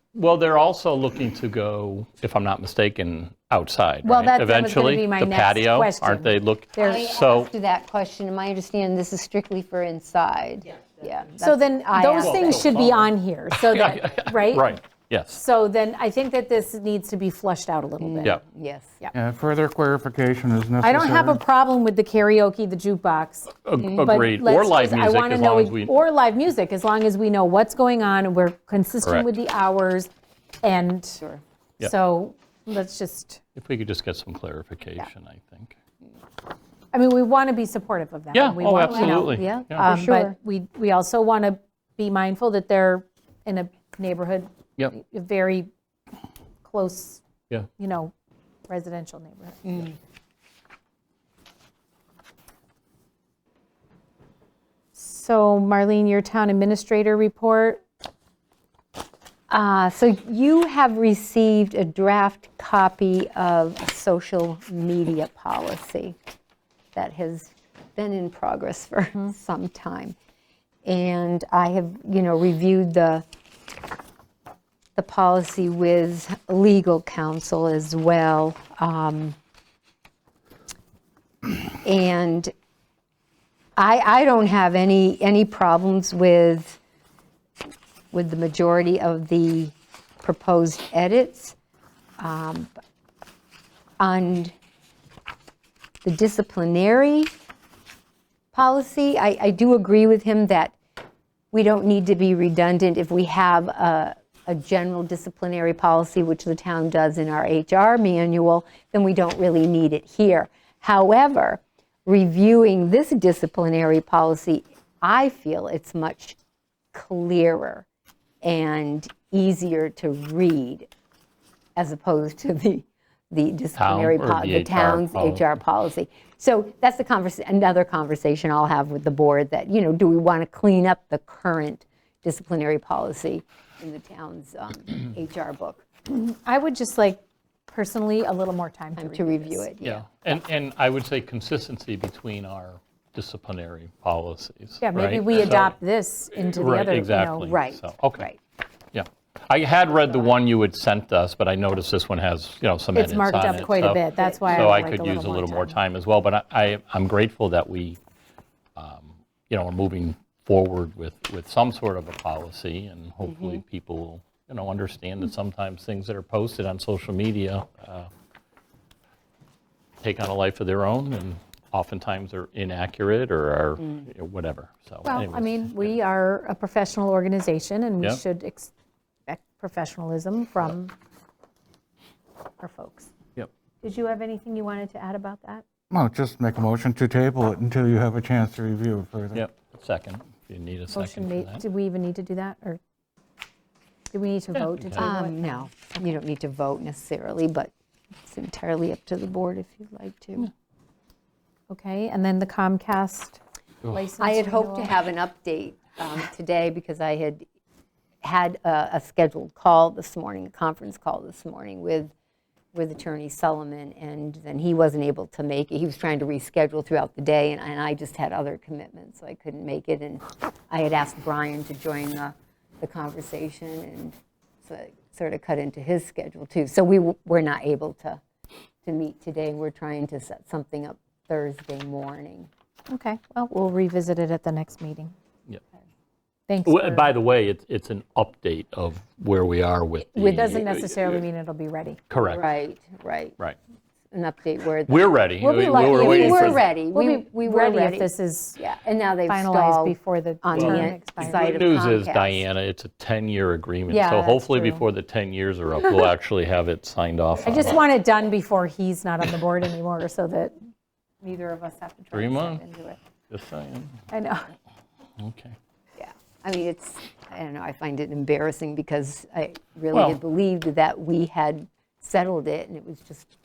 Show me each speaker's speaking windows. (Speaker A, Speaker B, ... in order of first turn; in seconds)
Speaker A: 0.1-7.5, 12.2-15.4, 23.6-25.9, 29.0-29.3, 33.5-35.7, 38.3-39.9, 123.8-125.5, 139.8-145.8, 146.4-148.3, 148.9-158.0, 158.8-168.1, 170.0-175.9, 189.3-191.6, 194.6-195.1, 236.6-241.2, 242.1-242.5, 244.9-246.6, 250.5-257.8, 262.1-262.6, 263.3-264.0, 265.2-265.6, 269.9-270.2
Speaker B: 4.0-7.0, 11.4-14.8, 15.3-18.4, 20.8-30.1, 30.6-31.2, 31.8-33.4, 36.9-45.7, 46.6-47.2, 47.8-48.1, 48.7-49.9, 54.9-57.8, 136.1-139.7, 144.8-147.5, 152.9-155.8, 175.0-178.7, 179.3-180.9, 182.6-183.1, 183.8-185.6, 190.9-192.8, 194.1-196.1, 201.7-205.0, 232.9-235.1, 236.5-237.1, 240.1-242.0, 245.4-248.6, 249.2-251.6, 257.4-260.5, 261.2-263.0, 264.1-264.5
Speaker C: 6.8-12.8, 18.0-19.0, 23.8-24.2, 38.8-40.4, 49.6-49.9, 59.5-66.2, 66.9-70.1, 70.8-73.2, 75.0-79.3, 81.8-82.5, 83.8-86.8, 88.1-91.5, 92.2-92.7, 94.0-94.5, 96.0-97.3, 98.5-100.7, 101.5-116.4, 116.9-117.8, 118.4-120.9, 121.8-135.8, 139.0-140.4, 147.4-148.4, 154.2-154.8, 163.2-163.6, 173.8-174.1, 194.9-197.7, 198.2-200.5, 204.2-207.4, 208.2-212.1, 212.7-228.2, 228.8-232.5, 242.2-243.4, 244.1-252.4, 253.9-254.8, 266.0-273.3
Speaker D: 19.1-21.4, 185.9-189.4